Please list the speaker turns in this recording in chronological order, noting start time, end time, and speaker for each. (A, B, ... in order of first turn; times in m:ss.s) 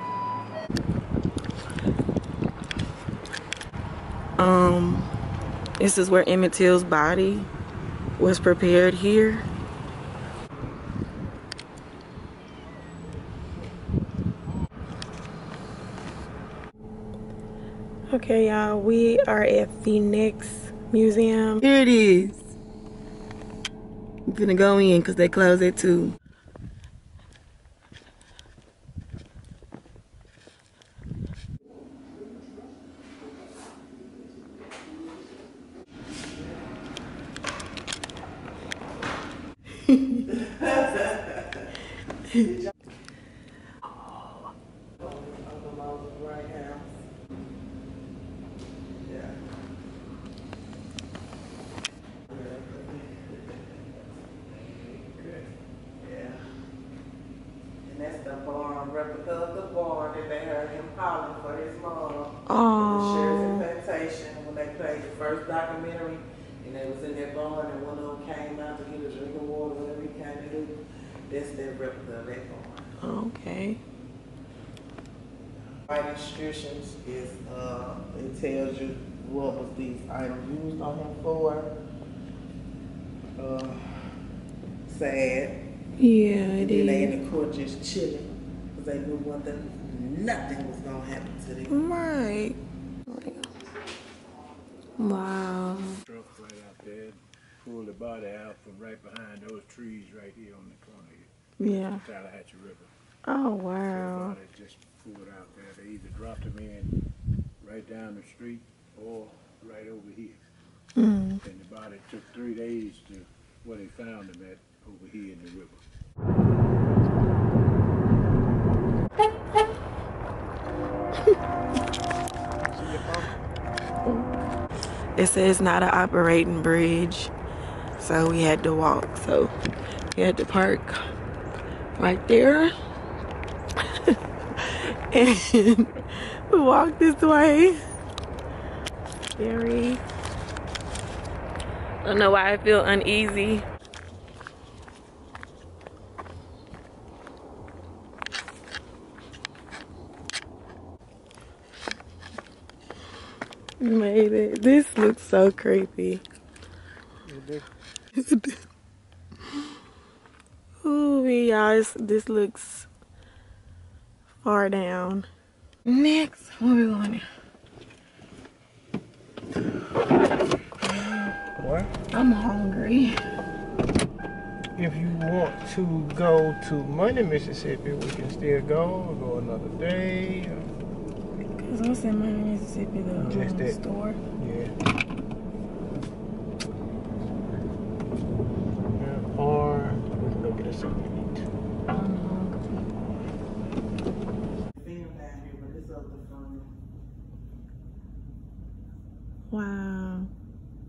0:04.4-0:05.1 A
0:05.8-0:07.5 A
0:08.2-0:09.4 A
0:18.1-0:22.5 A
0:24.2-0:26.2 A
0:39.8-0:40.3 A
0:40.4-0:41.3 B
0:42.3-0:42.5 A
0:45.0-0:46.9 B
0:49.0-0:49.4 B
0:52.3-0:56.4 B
0:57.8-1:12.9 B
1:02.4-1:03.6 A
1:13.0-1:13.8 A
1:15.8-1:21.7 B
1:23.4-1:24.1 B
1:24.8-1:25.6 B
1:26.0-1:27.1 A
1:26.6-1:31.8 B
1:31.7-1:33.5 A
1:35.0-1:36.0 A
1:36.0-1:41.3 C
1:41.6-1:42.0 A
1:42.0-1:42.9 C
1:43.2-1:44.4 A
1:43.8-1:46.9 C
1:47.6-1:50.4 C
1:51.0-1:51.4 A
1:51.4-1:55.8 C
2:05.2-2:07.3 A
2:08.0-2:09.5 A
2:10.1-2:11.1 A
2:12.0-2:12.7 A
2:14.0-2:17.8 A
2:19.4-2:20.0 A
2:22.0-2:23.6 A
2:33.8-2:36.2 A
2:37.2-2:37.6 D
2:38.1-2:38.6 A
2:40.8-2:42.9 A
2:44.4-2:45.3 A
2:45.8-2:47.2 A
2:50.8-2:51.3 A
2:51.6-2:51.9 D
2:52.1-2:53.2 A
2:54.8-3:00.7 D
3:01.5-3:04.2 A
3:03.1-3:03.8 D
3:04.4-3:04.7 D
3:09.0-3:11.2 D
3:11.9-3:12.9 A
3:14.8-3:16.7 B
3:19.5-3:20.3 A